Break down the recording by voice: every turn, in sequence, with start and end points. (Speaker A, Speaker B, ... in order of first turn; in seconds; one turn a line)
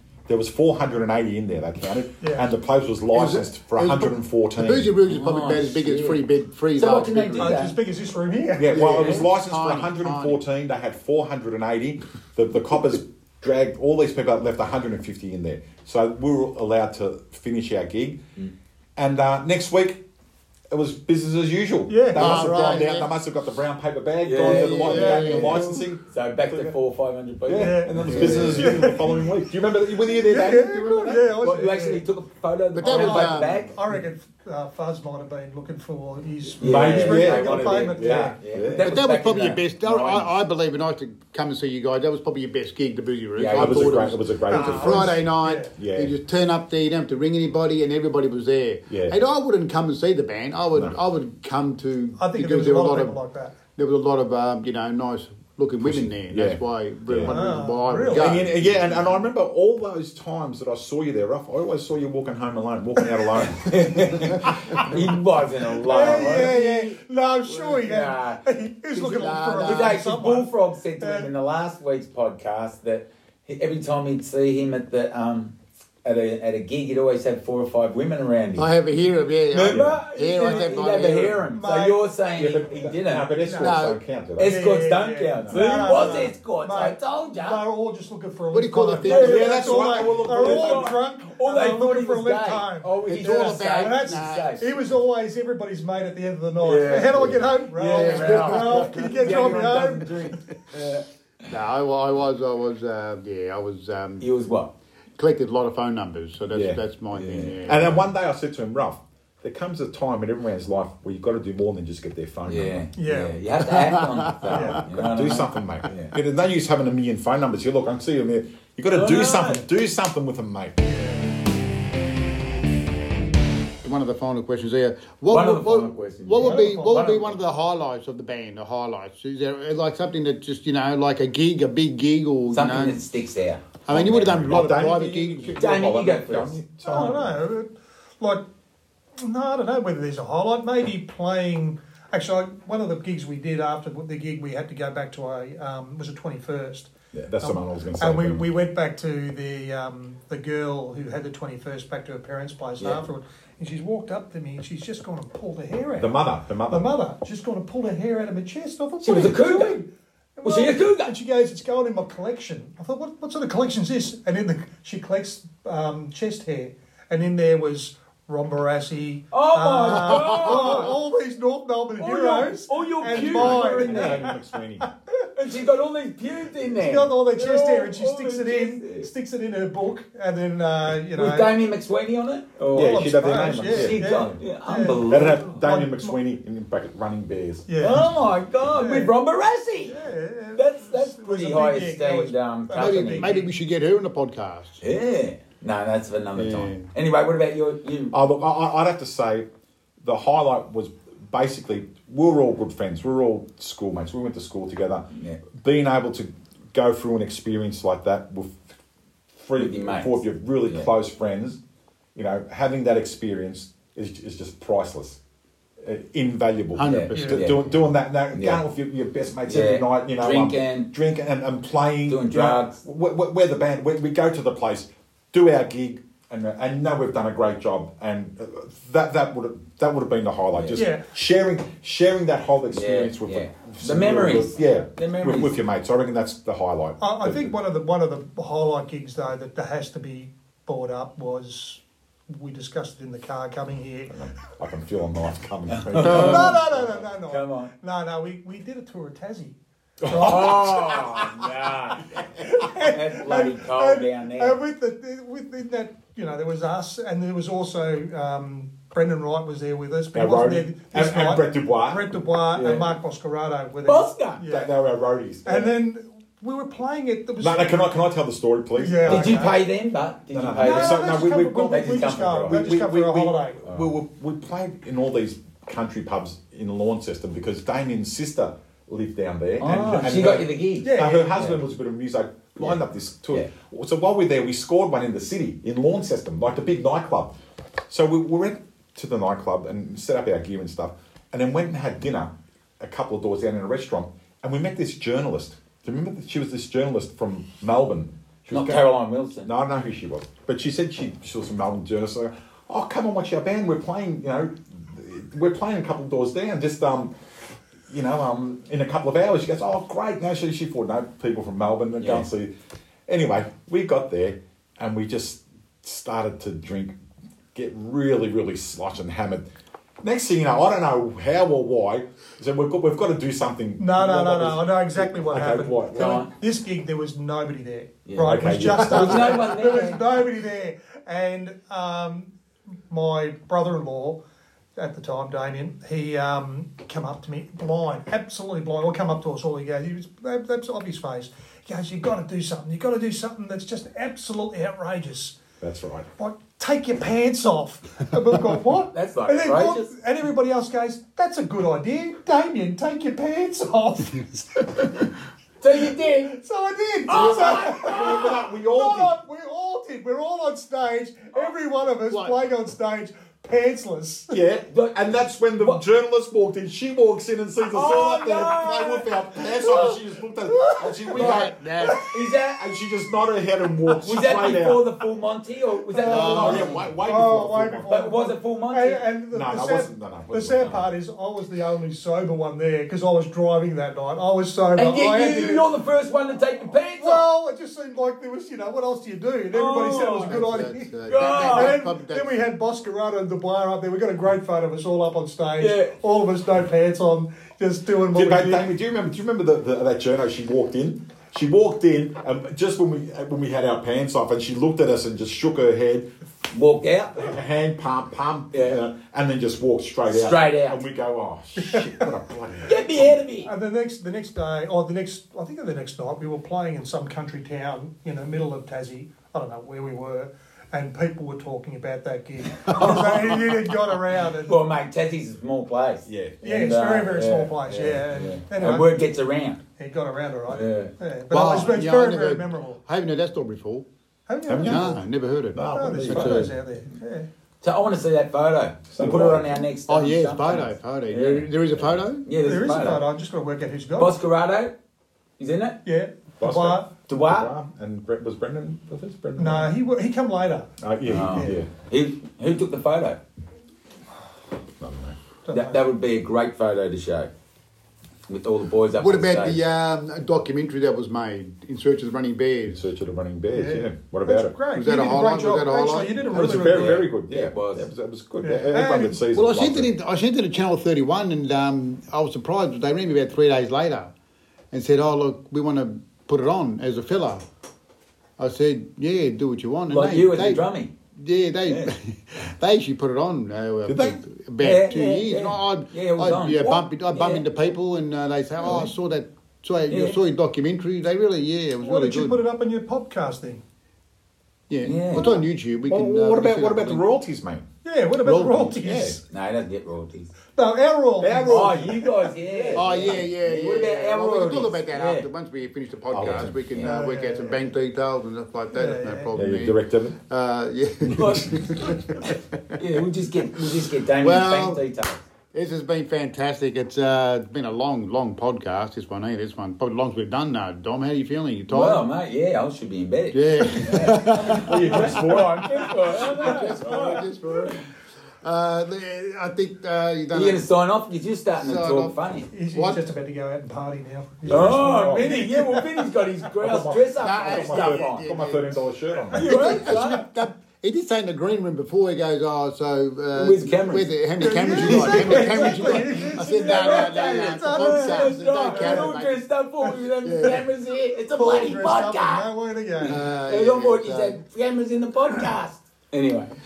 Speaker A: 0.3-4.9
Speaker B: 2.2-2.5
Speaker C: 3.1-7.6
Speaker D: 5.0-6.2
Speaker D: 6.7-7.7
Speaker B: 7.4-8.9
Speaker A: 8.6-18.2
Speaker C: 8.7-10.4
Speaker A: 18.9-20.0
Speaker A: 20.7-26.7
Speaker B: 21.9-22.9
Speaker C: 22.1-23.1
Speaker D: 24.2-25.4
Speaker C: 24.4-25.9
Speaker B: 24.9-25.7
Speaker D: 26.0-28.4
Speaker A: 27.5-31.4
Speaker B: 27.6-29.3
Speaker C: 28.0-28.9
Speaker B: 30.0-32.0
Speaker D: 31.3-33.8
Speaker C: 32.7-33.6
Speaker B: 32.8-38.4
Speaker D: 36.6-40.3
Speaker A: 36.6-39.0
Speaker C: 38.8-53.2
Speaker D: 43.4-44.0
Speaker A: 43.5-46.1
Speaker B: 44.5-45.7
Speaker A: 48.9-49.1
Speaker B: 52.2-53.5
Speaker C: 53.7-59.2
Speaker A: 55.8-57.4
Speaker B: 57.2-58.4
Speaker A: 58.0-65.1
Speaker B: 63.2-63.4
Speaker D: 63.5-66.8
Speaker B: 65.8-71.3
Speaker C: 66.0-66.9
Speaker C: 67.5-67.8
Speaker D: 67.8-68.4
Speaker C: 68.9-70.0
Speaker D: 69.5-78.7
Speaker C: 78.5-81.4
Speaker D: 79.5-83.3
Speaker A: 79.6-80.0
Speaker B: 81.5-82.0
Speaker A: 82.3-84.6
Speaker B: 83.4-83.8
Speaker C: 83.6-84.0
Speaker D: 84.4-87.6
Speaker B: 84.4-100.3
Speaker A: 85.4-86.2
Speaker C: 88.5-89.7
Speaker D: 89.0-94.7
Speaker A: 89.0-91.0
Speaker C: 93.0-94.7
Speaker D: 96.6-101.0
Speaker C: 97.8-99.7
Speaker C: 101.5-104.3
Speaker D: 104.2-104.7
Speaker C: 105.2-108.1
Speaker A: 106.5-106.8
Speaker D: 107.1-107.7
Speaker A: 107.6-112.8
Speaker D: 112.5-116.2
Speaker B: 113.0-113.4
Speaker C: 113.9-114.7
Speaker B: 114.5-114.8
Speaker A: 114.9-120.8
Speaker D: 118.9-119.6
Speaker B: 120.8-121.3
Speaker C: 123.8-133.0
Speaker D: 125.3-127.4
Speaker B: 126.4-127.1
Speaker D: 132.5-134.2
Speaker C: 133.8-135.6
Speaker A: 133.9-137.3
Speaker D: 135.6-137.1
Speaker B: 136.8-138.4
Speaker B: 139.2-146.9
Speaker A: 147.1-148.5
Speaker B: 147.4-156.2
Speaker A: 155.9-156.9
Speaker B: 156.7-174.8
Speaker D: 159.0-159.8
Speaker D: 160.4-161.1
Speaker D: 169.3-171.0
Speaker C: 169.9-170.6
Speaker D: 172.0-174.3
Speaker A: 173.1-174.9
Speaker D: 175.3-179.1
Speaker B: 176.7-181.6
Speaker D: 181.1-183.1
Speaker A: 182.7-184.4
Speaker B: 182.7-186.2
Speaker D: 183.6-185.5
Speaker A: 185.1-187.7
Speaker B: 187.7-188.1
Speaker D: 187.8-190.0
Speaker B: 188.7-189.2
Speaker B: 189.9-193.5
Speaker D: 190.5-193.4
Speaker C: 192.8-194.8
Speaker D: 194.8-198.1
Speaker C: 196.3-196.9
Speaker A: 198.1-199.5
Speaker A: 200.0-208.6
Speaker D: 205.1-205.4
Speaker A: 209.3-211.6
Speaker D: 209.6-210.9
Speaker A: 212.1-215.2
Speaker A: 215.8-237.5
Speaker C: 216.7-217.6
Speaker D: 216.8-217.7
Speaker B: 217.1-217.4
Speaker D: 218.3-218.6
Speaker D: 219.5-220.9
Speaker D: 222.1-222.8
Speaker D: 230.5-230.8
Speaker B: 230.7-231.0
Speaker D: 232.7-235.6
Speaker B: 237.0-244.1
Speaker A: 244.1-247.0
Speaker D: 245.7-246.7
Speaker B: 246.0-250.9
Speaker D: 247.2-247.7
Speaker A: 250.0-251.3
Speaker D: 250.1-254.6
Speaker B: 252.4-264.7
Speaker A: 260.1-262.1
Speaker D: 262.5-262.9
Speaker D: 263.9-264.4
Speaker A: 264.4-265.7
Speaker B: 265.4-267.9
Speaker A: 267.4-269.5
Speaker B: 268.7-269.6
Speaker D: 269.0-271.1
Speaker A: 270.3-287.3
Speaker B: 270.6-273.6
Speaker D: 271.7-272.7
Speaker D: 273.6-273.9
Speaker D: 279.6-281.6
Speaker B: 280.8-281.4
Speaker A: 287.9-307.1
Speaker D: 298.5-299.5
Speaker A: 307.9-312.5
Speaker D: 312.0-312.3
Speaker A: 313.1-316.9
Speaker A: 317.5-319.5
Speaker A: 320.0-326.2
Speaker B: 323.8-332.3
Speaker D: 325.9-326.3
Speaker D: 328.1-330.0
Speaker A: 328.2-329.5
Speaker B: 332.9-334.2
Speaker B: 334.8-345.4
Speaker A: 345.6-346.1
Speaker B: 346.2-355.1
Speaker D: 348.9-349.9
Speaker D: 355.6-356.4
Speaker B: 356.3-364.4
Speaker D: 357.1-358.3
Speaker A: 357.1-359.1
Speaker C: 362.1-362.4
Speaker A: 364.3-371.6
Speaker D: 364.7-365.8
Speaker D: 367.7-370.0
Speaker D: 371.1-372.6
Speaker C: 371.1-372.0
Speaker A: 372.6-374.8
Speaker D: 374.0-376.8
Speaker B: 375.9-385.7
Speaker C: 376.0-376.8
Speaker A: 376.0-377.9
Speaker D: 377.9-379.0
Speaker A: 379.3-380.9
Speaker D: 384.7-387.2
Speaker B: 387.0-398.7
Speaker D: 389.5-390.4
Speaker C: 390.2-392.4
Speaker D: 391.1-391.8
Speaker D: 395.6-395.9
Speaker A: 398.1-406.1
Speaker D: 406.5-407.3
Speaker A: 407.1-413.2
Speaker D: 408.5-408.8
Speaker D: 410.1-410.8
Speaker B: 411.7-412.0
Speaker D: 412.6-413.5
Speaker B: 413.4-424.6
Speaker D: 422.7-423.2
Speaker D: 424.4-429.6
Speaker A: 426.1-426.4
Speaker B: 426.4-428.9
Speaker B: 429.8-432.8
Speaker D: 430.5-430.9
Speaker C: 431.3-433.9
Speaker B: 434.3-435.0
Speaker A: 434.4-435.0
Speaker C: 434.6-436.5
Speaker A: 435.5-436.5
Speaker B: 435.7-437.3
Speaker D: 437.6-443.1
Speaker A: 438.9-439.6
Speaker C: 439.9-442.2
Speaker B: 442.4-444.1
Speaker D: 444.0-444.7
Speaker D: 445.4-445.8
Speaker B: 445.8-446.9
Speaker A: 446.4-449.7
Speaker D: 447.1-447.5
Speaker B: 449.4-451.6
Speaker A: 450.8-451.7
Speaker D: 451.1-453.2
Speaker A: 454.8-455.2
Speaker B: 455.4-455.8
Speaker D: 455.5-457.3
Speaker D: 458.3-459.6
Speaker C: 459.0-462.8
Speaker A: 462.7-464.5
Speaker B: 463.5-467.1
Speaker C: 464.7-466.2
Speaker A: 466.3-469.9
Speaker D: 466.5-467.9
Speaker B: 468.4-469.2
Speaker C: 469.3-474.1
Speaker C: 474.7-477.4
Speaker C: 478.4-492.4
Speaker D: 479.9-480.9
Speaker D: 481.7-481.9
Speaker A: 483.9-484.2
Speaker D: 484.6-487.4
Speaker D: 489.9-490.2
Speaker B: 491.8-493.6
Speaker C: 494.7-497.0
Speaker D: 494.8-495.3
Speaker A: 495.9-497.6
Speaker B: 497.8-499.2
Speaker C: 498.2-498.8
Speaker A: 498.6-499.2
Speaker D: 499.3-500.3
Speaker B: 500.5-502.9
Speaker A: 501.2-502.1
Speaker D: 501.4-505.2
Speaker C: 502.7-512.8
Speaker A: 506.1-506.5
Speaker D: 506.2-506.9
Speaker B: 506.8-507.6
Speaker B: 508.7-509.3
Speaker A: 509.3-510.2
Speaker A: 511.1-511.3
Speaker D: 511.1-515.2
Speaker C: 514.2-514.8
Speaker C: 515.5-522.0
Speaker D: 521.7-527.7
Speaker C: 523.3-525.4
Speaker A: 524.4-526.0
Speaker C: 526.0-527.8
Speaker C: 528.4-530.6
Speaker D: 530.3-532.5
Speaker C: 531.6-532.2
Speaker B: 532.5-536.0
Speaker C: 532.7-533.0
Speaker A: 534.4-535.5
Speaker D: 534.5-538.3
Speaker A: 536.5-539.7
Speaker C: 537.2-549.4
Speaker D: 539.3-540.3
Speaker B: 539.4-539.6
Speaker D: 543.3-544.1
Speaker B: 544.4-549.1
Speaker D: 544.6-552.5
Speaker C: 550.1-550.6
Speaker B: 551.3-553.2
Speaker C: 553.0-554.4
Speaker D: 553.0-556.5